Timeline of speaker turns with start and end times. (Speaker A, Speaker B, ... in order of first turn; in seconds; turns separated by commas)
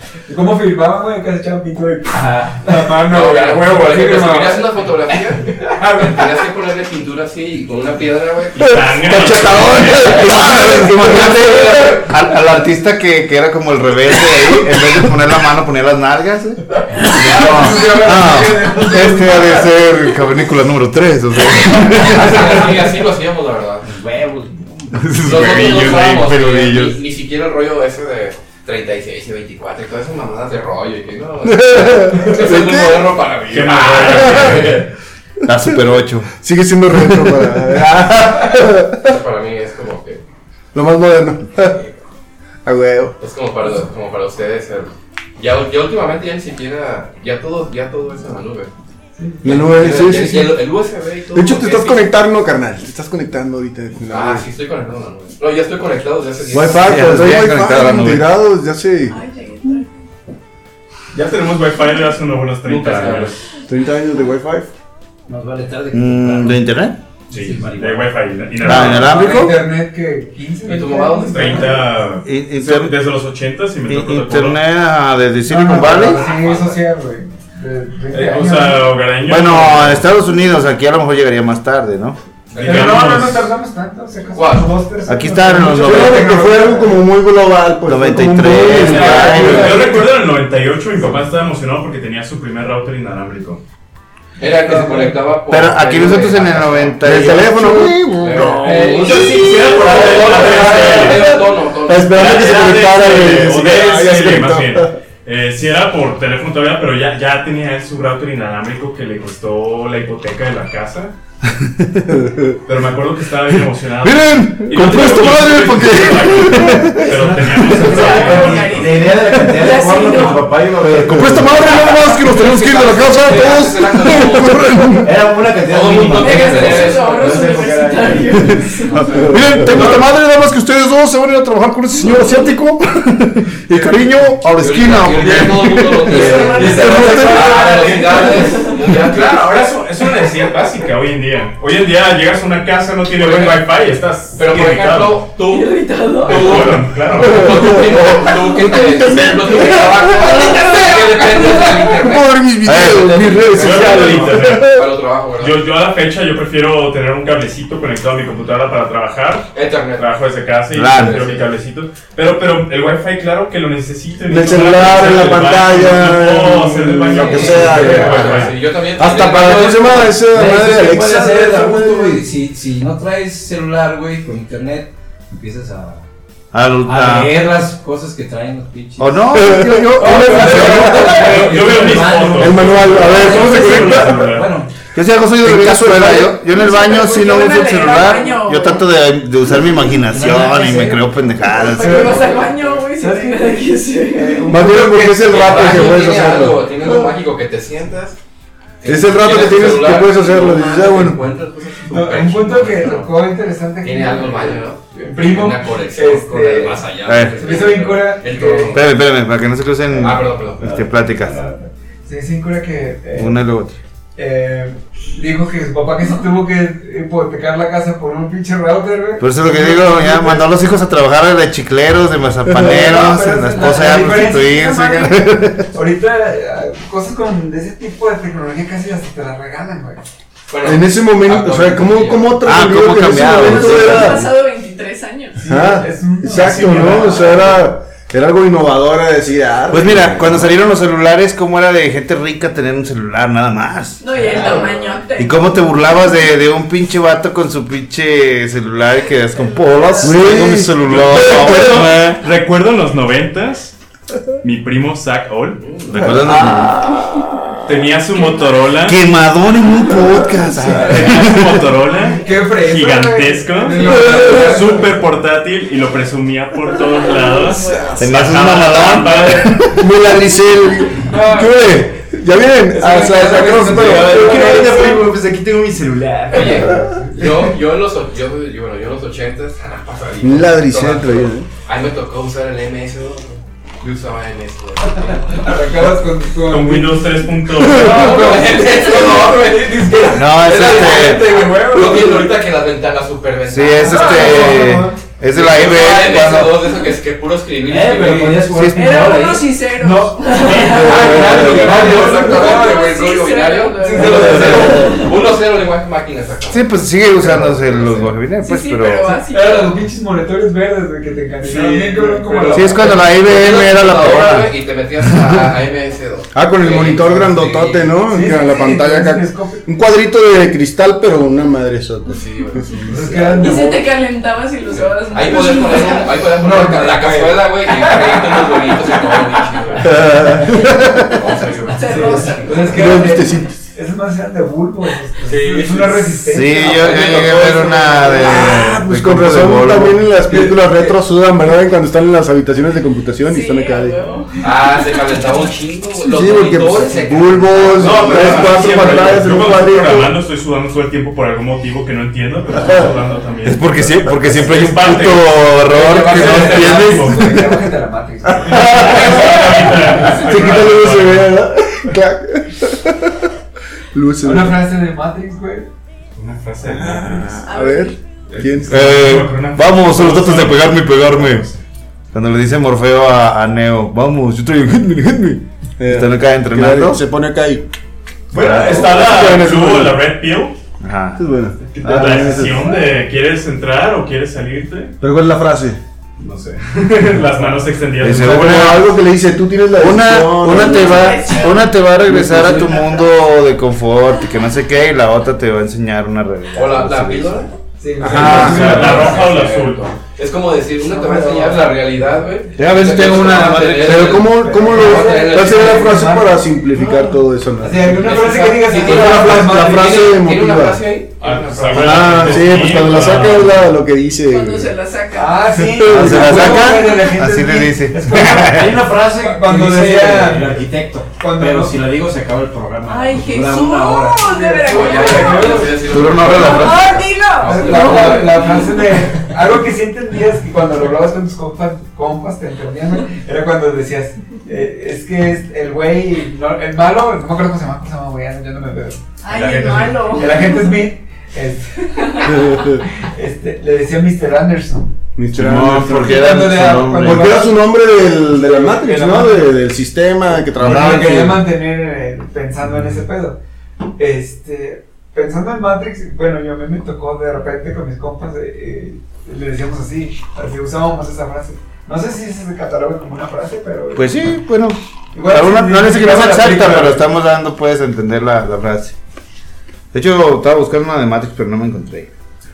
Speaker A: 0.3-4.7, Speaker B: 2.1-2.7, Speaker C: 3.1-12.1, Speaker A: 5.6-6.3, Speaker D: 8.6-10.4, Speaker E: 9.1-22.8, Speaker F: 9.3-11.0, Speaker A: 17.0-19.7, Speaker C: 21.6-23.9, Speaker B: 23.8-25.1, Speaker E: 24.9-27.0, Speaker C: 25.2-34.9, Speaker F: 31.4-33.1, Speaker D: 33.5-34.9, Speaker E: 35.5-36.3, Speaker F: 36.4-39.1, Speaker E: 37.1-38.5, Speaker C: 39.0-40.2, Speaker F: 40.7-41.9, Speaker F: 42.6-43.1, Speaker C: 43.2-48.7, Speaker F: 49.4-50.6, Speaker C: 49.4-52.1, Speaker F: 51.3-54.4, Speaker C: 54.1-57.1, Speaker F: 56.5-59.2, Speaker E: 56.8-58.2, Speaker G: 59.1-59.9, Speaker D: 61.1-63.3, Speaker C: 62.6-63.4, Speaker F: 63.7-64.7, Speaker B: 65.3-66.6, Speaker E: 65.9-67.0, Speaker B: 67.3-68.2, Speaker D: 67.3-69.2, Speaker E: 68.6-69.6, Speaker A: 68.7-71.9, Speaker C: 70.6-71.8, Speaker D: 71.3-74.6, Speaker E: 72.2-73.0, Speaker E: 73.9-76.2, Speaker A: 75.5-79.0, Speaker C: 75.8-76.8, Speaker D: 78.1-80.0, Speaker E: 79.2-82.2, Speaker C: 82.5-83.1, Speaker D: 82.6-83.5, Speaker A: 82.6-87.0, Speaker C: 84.3-84.7, Speaker E: 85.1-86.4, Speaker F: 85.8-90.1, Speaker E: 87.8-90.0, Speaker D: 88.6-93.6, Speaker C: 94.4-97.3, Speaker A: 94.4-95.2, Speaker E: 95.5-98.5, Speaker F: 97.0-98.5, Speaker C: 98.2-102.7, Speaker D: 98.6-101.3, Speaker B: 98.7-99.2, Speaker A: 98.7-99.1, Speaker F: 99.7-104.9, Speaker D: 102.1-111.1, Speaker E: 111.6-112.2, Speaker F: 112.2-112.5, Speaker D: 112.7-119.1, Speaker E: 114.0-117.1, Speaker F: 114.6-117.0, Speaker B: 117.0-121.5, Speaker G: 117.8-120.6, Speaker F: 120.8-122.2, Speaker E: 120.8-123.9, Speaker C: 121.7-124.8, Speaker F: 123.3-125.1, Speaker B: 125.0-128.7, Speaker C: 125.6-128.0, Speaker E: 125.9-126.3, Speaker G: 126.1-129.1, Speaker C: 128.8-129.8, Speaker F: 129.1-130.0, Speaker E: 129.2-137.6, Speaker C: 134.6-140.1, Speaker G: 136.0-138.8, Speaker F: 136.8-137.3, Speaker D: 138.9-145.3, Speaker C: 143.2-143.7, Speaker C: 144.3-155.6, Speaker G: 145.4-146.6, Speaker D: 146.2-147.8, Speaker F: 147.5-154.8, Speaker G: 150.5-150.8, Speaker E: 152.6-153.9, Speaker D: 153.5-154.7, Speaker D: 155.4-168.6, Speaker C: 159.5-160.2, Speaker E: 160.7-161.2, Speaker C: 160.9-161.5, Speaker F: 164.3-172.2, Speaker B: 167.1-167.7, Speaker C: 167.5-170.2, Speaker B: 170.3-176.1, Speaker E: 176.5-177.4, Speaker B: 176.8-179.3, Speaker E: 179.0-181.4, Speaker F: 179.3-184.3, Speaker B: 180.0-184.7, Speaker D: 181.1-184.6, Speaker A: 181.1-181.6, Speaker E: 184.9-192.2, Speaker F: 185.4-186.4, Speaker G: 186.4-188.9, Speaker B: 190.0-191.1, Speaker G: 191.5-194.5, Speaker A: 191.8-196.4, Speaker F: 194.4-196.8, Speaker C: 195.2-198.2, Speaker C: 198.8-203.1, Speaker F: 198.8-201.2, Speaker A: 201.9-206.8, Speaker C: 203.8-208.8, Speaker E: 207.1-207.5, Speaker A: 207.4-208.8, Speaker E: 208.7-211.4, Speaker A: 209.9-213.4, Speaker C: 210.0-210.7, Speaker E: 213.2-213.8, Speaker A: 214.2-220.5, Speaker E: 219.2-225.7, Speaker A: 222.5-230.0, Speaker C: 230.5-232.4, Speaker F: 230.6-234.3, Speaker E: 232.4-234.3, Speaker G: 233.2-235.4, Speaker F: 235.4-240.5, Speaker A: 235.4-237.4, Speaker C: 236.9-237.3, Speaker E: 239.7-244.0, Speaker G: 244.0-245.8, Speaker C: 244.1-245.0, Speaker E: 245.2-252.2, Speaker G: 249.3-250.2, Speaker F: 250.0-251.9, Speaker D: 250.9-253.7, Speaker D: 254.4-255.6, Speaker C: 255.6-256.3, Speaker E: 255.9-256.8, Speaker F: 255.9-257.2, Speaker D: 257.7-259.0, Speaker G: 258.1-258.6, Speaker E: 258.8-261.7, Speaker A: 260.6-261.2, Speaker D: 260.8-269.6, Speaker A: 261.9-265.0, Speaker G: 266.8-268.8, Speaker E: 268.0-269.9, Speaker F: 269.6-274.7, Speaker A: 271.1-271.9, Speaker A: 272.7-275.1, Speaker E: 273.7-276.6, Speaker C: 276.3-285.5, Speaker A: 276.3-277.4, Speaker F: 280.2-281.5, Speaker A: 285.3-292.4, Speaker D: 286.5-288.4, Speaker C: 287.7-294.6, Speaker E: 290.1-291.3, Speaker E: 293.5-296.7, Speaker A: 293.8-295.0, Speaker C: 295.3-298.4, Speaker B: 297.6-299.5, Speaker A: 298.0-298.4, Speaker E: 298.5-299.1, Speaker G: 298.7-305.1, Speaker A: 299.8-303.0, Speaker B: 300.4-302.4, Speaker F: 300.7-301.3, Speaker C: 301.1-308.1, Speaker A: 303.8-305.1, Speaker E: 306.5-309.1, Speaker G: 308.4-309.8, Speaker A: 309.2-313.1, Speaker C: 311.4-317.9, Speaker E: 312.5-314.5, Speaker F: 316.3-323.6, Speaker A: 318.0-319.6, Speaker C: 322.1-322.8, Speaker A: 322.9-323.9, Speaker G: 323.4-326.2, Speaker C: 324.7-332.8, Speaker A: 325.6-329.2, Speaker A: 329.8-330.1, Speaker F: 329.8-331.0, Speaker G: 331.7-332.8, Speaker A: 331.8-338.6, Speaker F: 332.7-333.6, Speaker C: 335.2-338.0, Speaker E: 336.3-340.1, Speaker F: 338.2-344.1, Speaker A: 340.3-340.9, Speaker G: 343.2-344.5, Speaker C: 344.4-349.2, Speaker F: 346.0-350.2, Speaker D: 347.7-357.3, Speaker F: 352.6-352.9, Speaker E: 353.4-357.6, Speaker A: 355.7-360.2, Speaker C: 355.8-356.8, Speaker F: 358.4-363.2, Speaker D: 358.6-361.4, Speaker F: 363.9-364.6, Speaker A: 364.2-365.7, Speaker C: 366.2-366.9, Speaker D: 366.2-367.2, Speaker F: 366.6-369.1, Speaker G: 367.4-367.9, Speaker D: 368.5-371.5, Speaker E: 368.7-371.4, Speaker E: 372.1-377.0, Speaker F: 375.8-377.6, Speaker D: 378.3-380.5, Speaker F: 378.3-380.1, Speaker E: 378.4-379.0, Speaker E: 380.8-381.2, Speaker F: 381.1-382.8, Speaker D: 381.8-384.9, Speaker A: 382.0-382.4, Speaker F: 385.0-385.8, Speaker D: 386.4-388.9, Speaker E: 388.0-389.0, Speaker F: 388.0-391.3, Speaker E: 389.8-397.5, Speaker G: 390.5-391.8, Speaker B: 392.1-392.7, Speaker G: 392.6-393.0, Speaker C: 396.5-397.5, Speaker A: 397.8-399.6, Speaker F: 398.0-399.1, Speaker E: 398.1-398.9, Speaker D: 398.2-399.9, Speaker C: 398.6-406.1, Speaker A: 400.9-401.8, Speaker E: 402.6-404.2, Speaker A: 403.0-403.4, Speaker F: 403.6-410.9, Speaker A: 404.4-410.1, Speaker C: 408.0-412.6, Speaker D: 411.2-413.6, Speaker F: 411.7-414.7, Speaker G: 414.2-415.6, Speaker A: 415.1-420.6, Speaker F: 415.6-416.7, Speaker E: 415.8-418.8, Speaker B: 418.3-424.3, Speaker A: 421.2-421.8, Speaker G: 422.9-428.4, Speaker A: 424.2-426.0, Speaker C: 424.6-428.8, Speaker E: 425.8-427.1, Speaker A: 427.4-439.0, Speaker G: 439.2-440.9, Speaker A: 440.0-444.9, Speaker G: 442.0-442.3, Speaker F: 442.2-442.8, Speaker F: 445.1-451.5, Speaker E: 445.3-447.4, Speaker A: 445.8-449.6, Speaker A: 450.6-453.4, Speaker E: 450.6-451.3, Speaker A: 454.0-464.3, Speaker E: 463.9-468.9, Speaker A: 465.1-467.1, Speaker E: 469.9-472.1